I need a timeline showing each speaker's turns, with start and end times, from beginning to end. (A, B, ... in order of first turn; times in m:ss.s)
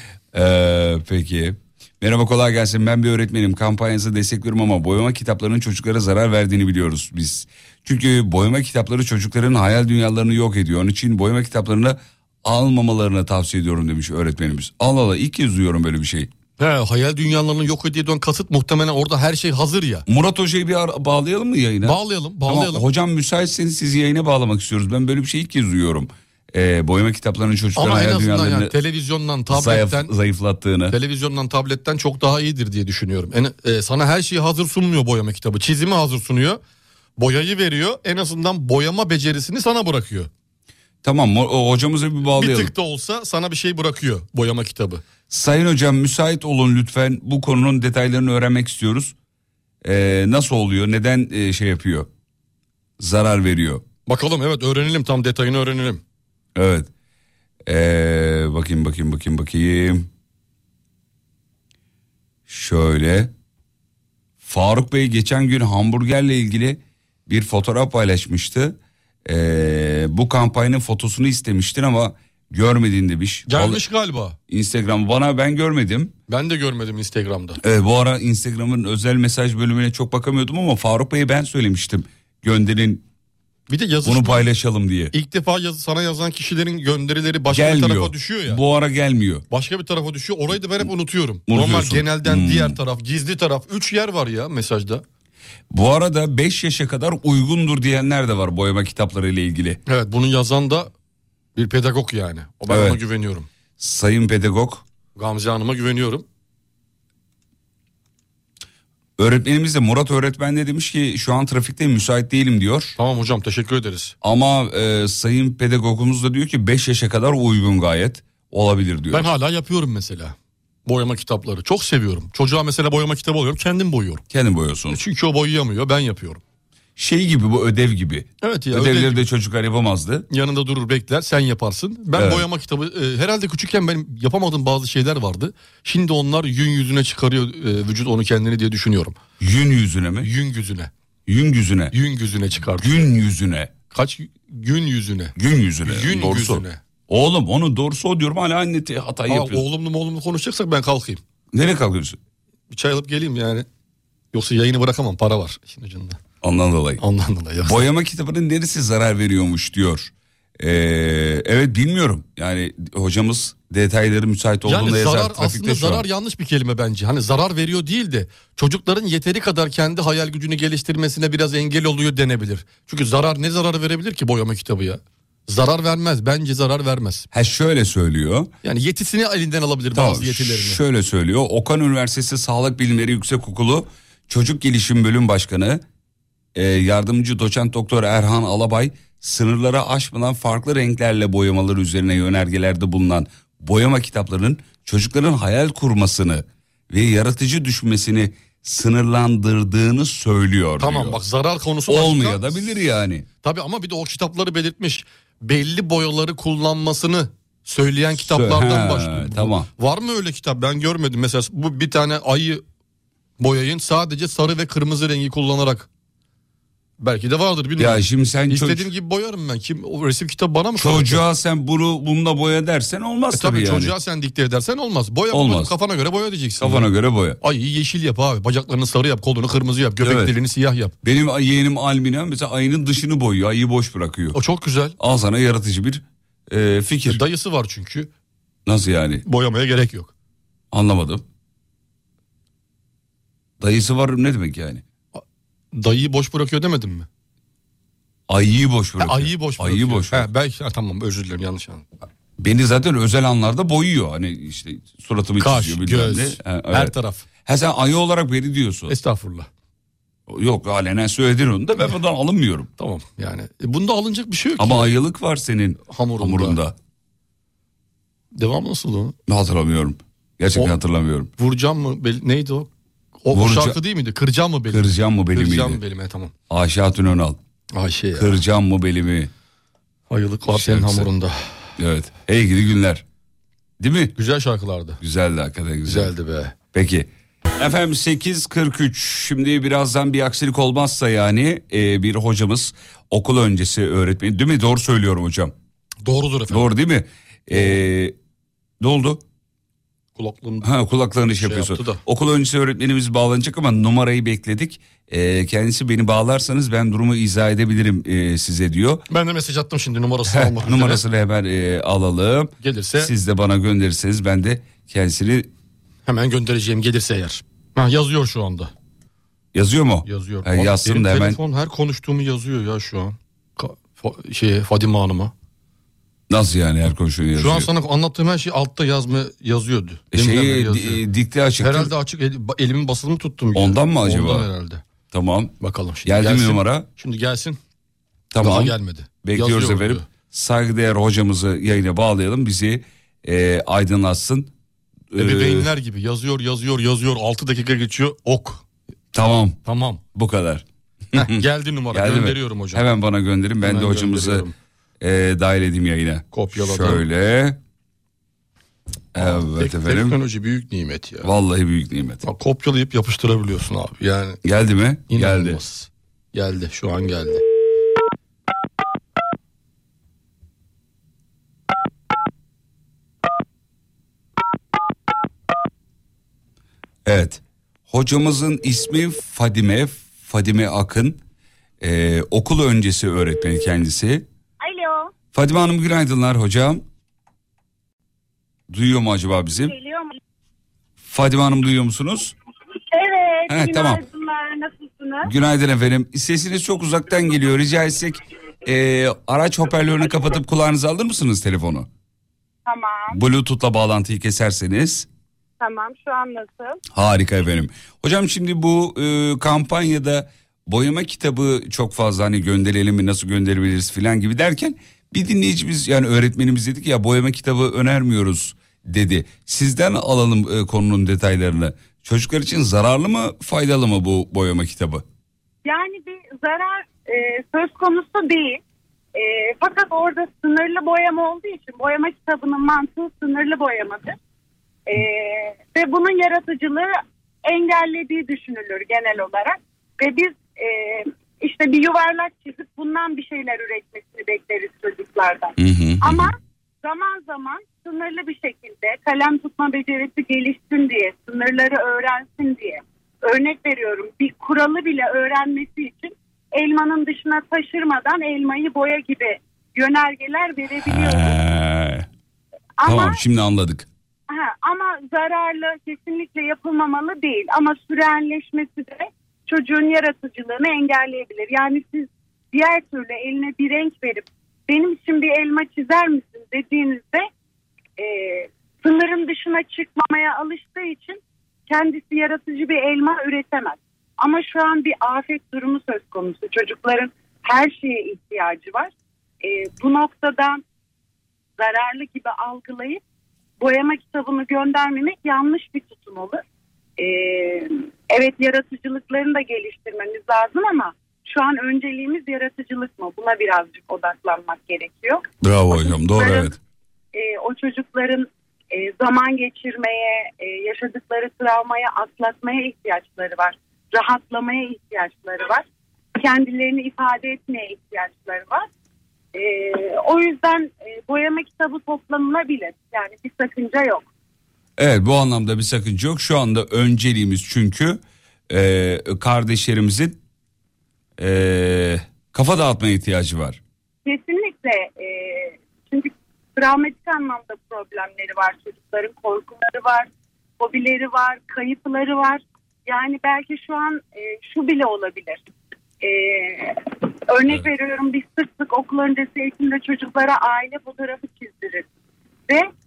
0:00.3-0:16.3 A
0:16.6-0:20.0 B
0:20.1-0:28.7 A
0:21.8-0:22.9 B
0:27.8-0:30.1 B
0:29.5-0:31.0 A
0:30.9-0:36.6 B
0:37.2-0:40.3 B
0:41.0-0:42.7 A
0:42.4-0:45.0 B
0:45.3-0:49.2 A
0:49.8-0:52.1 A
0:53.0-0:53.8 A
0:54.1-0:56.0 B
0:56.6-0:56.9 A
0:57.7-1:00.1 A
1:02.5-1:03.3 A
1:04.4-1:13.8 A
1:13.5-1:14.4 B
1:14.5-1:16.1 A
1:16.3-1:17.6 B
1:17.6-1:23.0 A
1:23.7-1:24.5 B
1:24.0-1:25.1 A
1:25.1-1:28.6 B
1:27.5-1:29.4 A
1:29.5-1:35.0 B
1:31.5-1:32.8 A
1:35.7-1:39.8 A
1:39.9-1:40.9 B
1:41.6-1:43.5 B
1:42.7-1:43.0 A
1:43.8-1:44.8 A
1:45.2-1:46.2 B
1:49.2-1:53.0 A
1:53.0-1:54.1 B
1:54.2-1:59.3 A
1:59.1-2:00.4 B
2:00.9-2:04.2 B
2:04.3-2:05.0 A
2:04.9-2:06.4 B
2:07.0-2:10.3 A
2:08.4-2:09.2 B
2:10.3-2:19.2 B
2:12.1-2:12.5 A
2:19.4-2:20.3 A
2:20.2-2:20.9 B
2:21.3-2:21.9 A
2:21.9-2:23.0 B
2:22.8-2:23.7 A
2:23.9-2:26.8 B
2:25.4-2:29.6 A
2:29.3-2:31.2 B
2:31.5-2:32.2 A
2:32.7-2:33.7 B
2:34.3-2:36.2 B
2:36.4-2:37.0 A
2:37.0-2:37.9 B
2:37.6-2:46.1 A
2:44.6-2:57.3 B
2:57.3-2:58.5 A
2:58.6-3:00.8 B
3:00.0-3:05.8 A
3:06.6-3:21.2 A
3:20.8-3:22.7 B
3:21.9-3:23.3 A
3:23.4-3:32.6 B
3:28.2-3:29.7 A
3:33.4-3:35.9 B
3:37.0-3:41.2 B
3:37.8-3:38.9 A
3:40.8-3:43.9 A
3:43.3-3:46.9 B
3:45.3-3:45.7 A
3:46.6-3:47.4 A
3:47.4-3:50.9 B
3:50.0-3:50.3 A
3:51.0-3:54.4 A
3:54.3-3:55.0 B
3:55.0-3:57.2 A
3:57.1-3:58.1 B
3:58.7-3:59.2 A
3:59.2-4:00.1 B
4:00.7-4:01.2 A
4:03.6-4:04.8 A
4:05.1-4:07.1 B
4:08.3-4:10.3 A
4:09.0-4:11.9 B
4:12.4-4:16.9 A
4:15.4-4:17.3 B
4:17.4-4:19.0 A
4:18.9-4:19.5 B
4:20.3-4:22.7 A
4:22.8-4:25.0 B
4:24.6-4:26.8 A
4:25.9-4:26.6 B
4:28.3-4:29.2 B
4:29.3-4:31.3 A
4:31.4-4:32.7 B
4:33.2-4:36.3 B
4:33.3-4:33.8 A
4:34.7-4:35.8 A
4:36.5-4:37.4 A
4:37.7-4:38.4 B
4:38.2-4:39.3 A
4:40.1-4:41.4 B
4:40.5-4:41.1 A
4:41.8-4:43.0 A
4:43.8-4:44.2 A
4:44.2-4:45.0 B
4:45.0-4:46.1 A
4:45.8-4:46.6 B
4:46.7-4:55.5 A
4:56.0-4:56.7 B
4:56.5-4:58.2 A
4:58.8-4:59.2 A
5:00.2-5:00.7 B
5:00.6-5:09.1 A
5:01.4-5:02.0 B
5:09.1-5:11.0 B
5:10.3-5:15.5 A
5:12.6-5:13.1 B
5:16.1-5:18.7 B
5:19.5-5:21.4 A
5:20.1-5:25.3 B
5:26.3-5:27.7 A
5:27.4-5:31.0 B
5:30.1-5:31.9 A
5:31.6-5:34.8 B
5:33.6-5:34.5 A
5:35.1-5:36.9 A
5:35.6-5:37.6 B
5:38.3-5:44.5 A
5:38.4-5:40.1 B
5:45.1-5:45.7 A
5:45.2-5:48.6 B
5:49.1-5:49.6 A
5:49.6-5:50.0 B
5:50.1-5:54.5 A
5:51.1-5:52.8 B
5:53.6-5:54.5 B
5:55.0-5:57.6 A
5:56.3-5:57.0 B
5:59.1-6:00.2 A
5:59.2-6:01.3 B
6:01.2-6:02.2 A
6:02.2-6:04.4 B
6:04.4-6:05.6 A
6:05.1-6:07.4 B
6:17.0-6:21.2 A
6:21.8-6:24.2 A
6:24.6-6:25.1 C
6:25.3-6:26.8 A
6:28.7-6:29.8 A
6:29.6-6:30.1 C
6:31.0-6:32.4 A
6:32.9-6:35.3 C
6:33.5-6:34.0 A
6:35.2-6:41.9 A
6:42.7-6:43.2 C
6:43.1-6:45.1 A
6:45.6-6:46.8 C
6:46.9-7:05.0 A
7:05.6-7:08.6 C
7:09.2-7:14.2 C
7:14.9-7:16.9 C
7:17.4-7:41.4 C
7:25.6-7:26.3 A
7:40.8-7:42.1 A
7:42.8-7:43.2 C
7:42.8-7:43.9 A
7:44.3-7:57.3 C
7:58.0-8:10.6 C
8:11.6-8:13.0 C
8:13.6-8:16.4 C
8:17.0-8:26.6 C
8:25.4-8:26.6 A
8:27.1-8:35.6 C
8:36.2-8:38.7 C
8:39.3-8:44.1 C
8:44.8-8:50.2 A
8:51.2-8:53.6 A
8:54.0-9:05.4 C
9:06.0-9:11.9 C